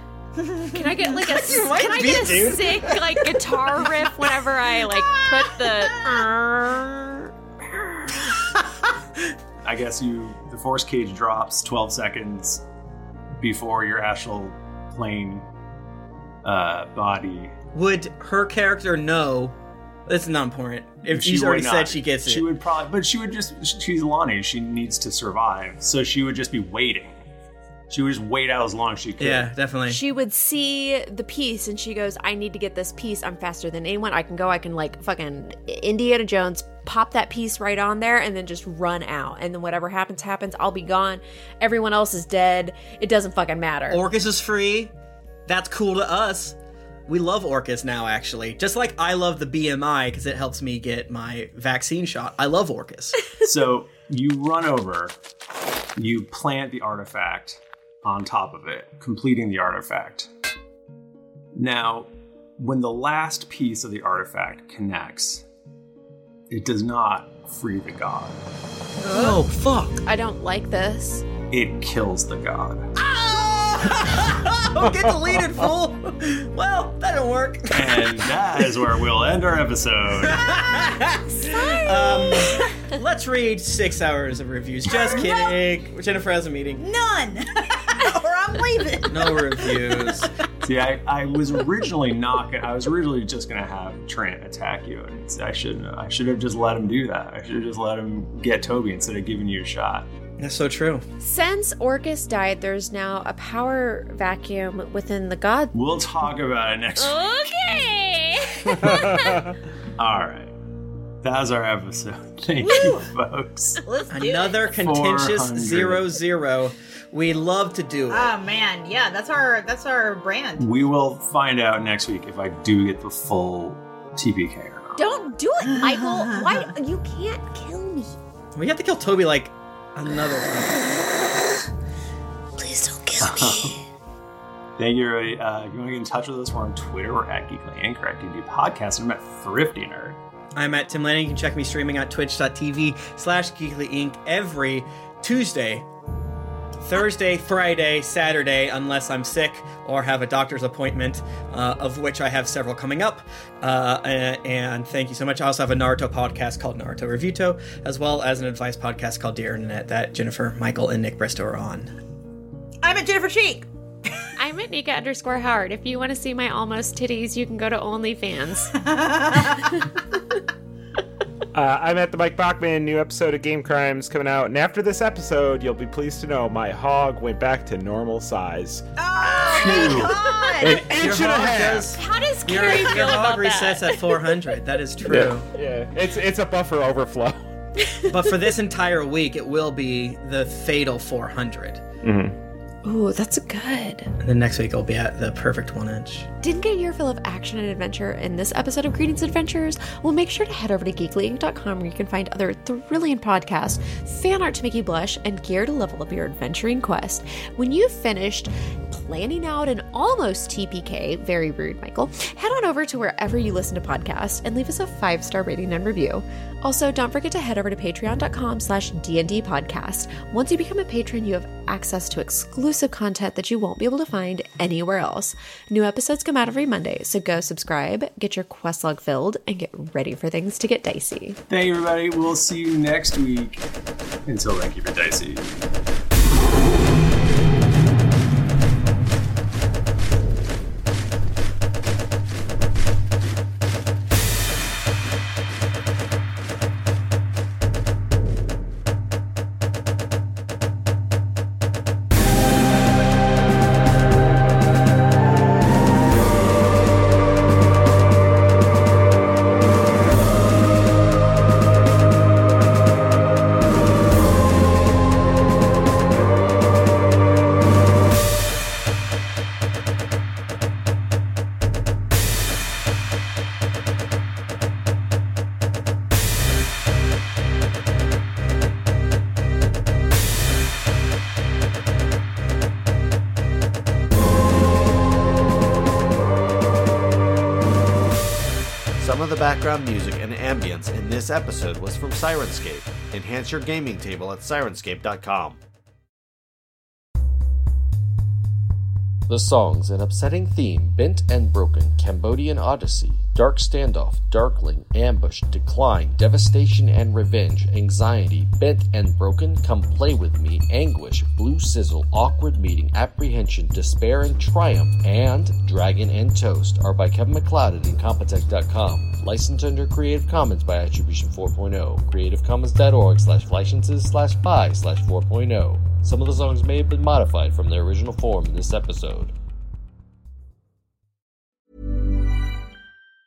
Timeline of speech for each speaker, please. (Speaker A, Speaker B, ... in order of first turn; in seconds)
Speaker A: 0.4-2.1, 81.4-82.6, 84.9-85.5, 86.8-90.2, 112.6-113.1, 113.8-114.7, 118.1-120.7, 125.9-126.5, 162.8-163.7, 168.9-169.7, 179.0-180.9, 182.1-183.8
Speaker B: 0.7-8.2, 29.9-44.0, 69.1-69.4, 70.0-71.2, 81.5-82.4, 101.2-105.7, 107.0-109.5, 125.0-128.2, 132.6-133.7, 164.4-168.9, 182.4-183.3, 192.8-194.1, 196.4-231.4
Speaker C: 1.3-3.0, 17.7-19.5, 20.1-22.5, 29.2-30.0, 43.9-44.9, 45.5-46.5, 47.1-53.3, 69.1-70.0, 73.0-78.4, 80.2-86.8, 89.1-90.3, 100.4-101.0, 114.1-118.3, 128.5-131.2, 140.6-145.8, 146.8-161.9, 180.9-185.5, 188.1-191.8, 194.2-196.3
Speaker D: 9.6-12.6, 13.4-15.4, 16.4-17.5, 21.1-27.2, 27.9-29.5, 53.4-55.1, 56.0-60.3, 61.5-65.4, 66.5-68.4, 71.5-72.9, 77.7-80.4, 90.6-100.1, 105.7-107.5, 110.0-110.5, 111.2-113.8, 114.8-116.1, 120.6-125.0, 133.2-133.8, 134.8-140.2, 179.4-180.2, 231.5-233.6, 234.2-235.6
Speaker E: 108.8-109.3, 171.5-178.8, 180.6-182.0, 185.0-187.4, 192.0-192.3
Speaker F: 289.0-295.6
Speaker G: 299.3-329.3